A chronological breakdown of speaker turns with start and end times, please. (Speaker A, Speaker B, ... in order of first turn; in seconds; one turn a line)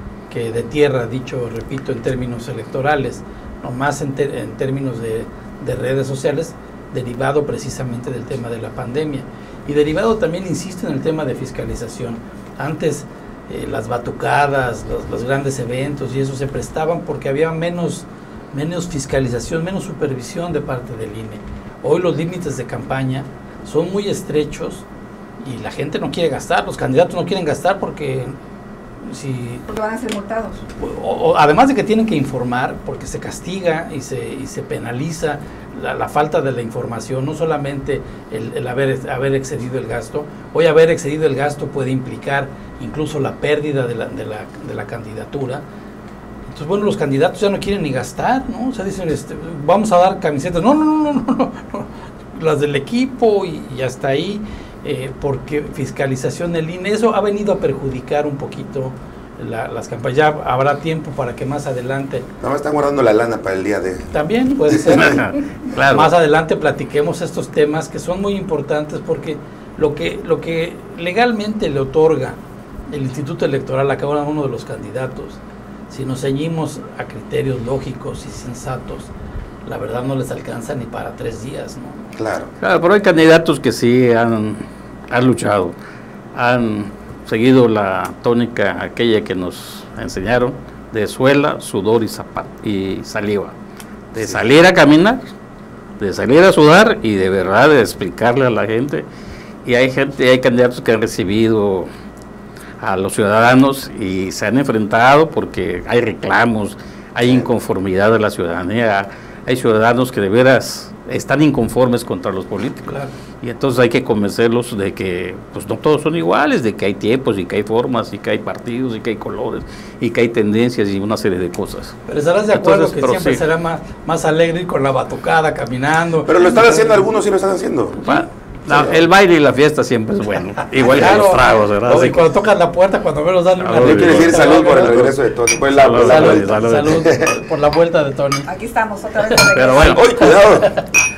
Speaker A: 0.3-24.8
Speaker A: 25.4-28.4
Speaker A: 29.0-29.6
Speaker B: 29.7-30.6
Speaker A: 30.8-45.6
Speaker A: 46.5-62.2
Speaker C: 62.4-64.1
Speaker A: 64.1-72.4
Speaker C: 64.7-65.2
Speaker D: 64.9-66.1
Speaker A: 72.9-79.1
Speaker A: 79.6-82.1
Speaker C: 82.2-82.5
Speaker D: 82.6-85.7
Speaker D: 86.3-93.5
Speaker D: 94.1-95.2
Speaker D: 96.0-99.0
Speaker D: 99.6-101.9
Speaker D: 102.8-122.0
Speaker A: 122.1-126.9
Speaker D: 122.5-123.4
Speaker C: 126.3-128.1
Speaker D: 128.0-132.2
Speaker C: 128.7-129.0
Speaker A: 130.8-135.1
Speaker D: 133.6-135.1
Speaker C: 133.8-137.4
Speaker D: 135.7-137.1
Speaker A: 136.0-138.5
Speaker B: 138.5-140.4
Speaker D: 139.5-140.0
Speaker C: 139.8-140.8
Speaker A: 140.3-140.8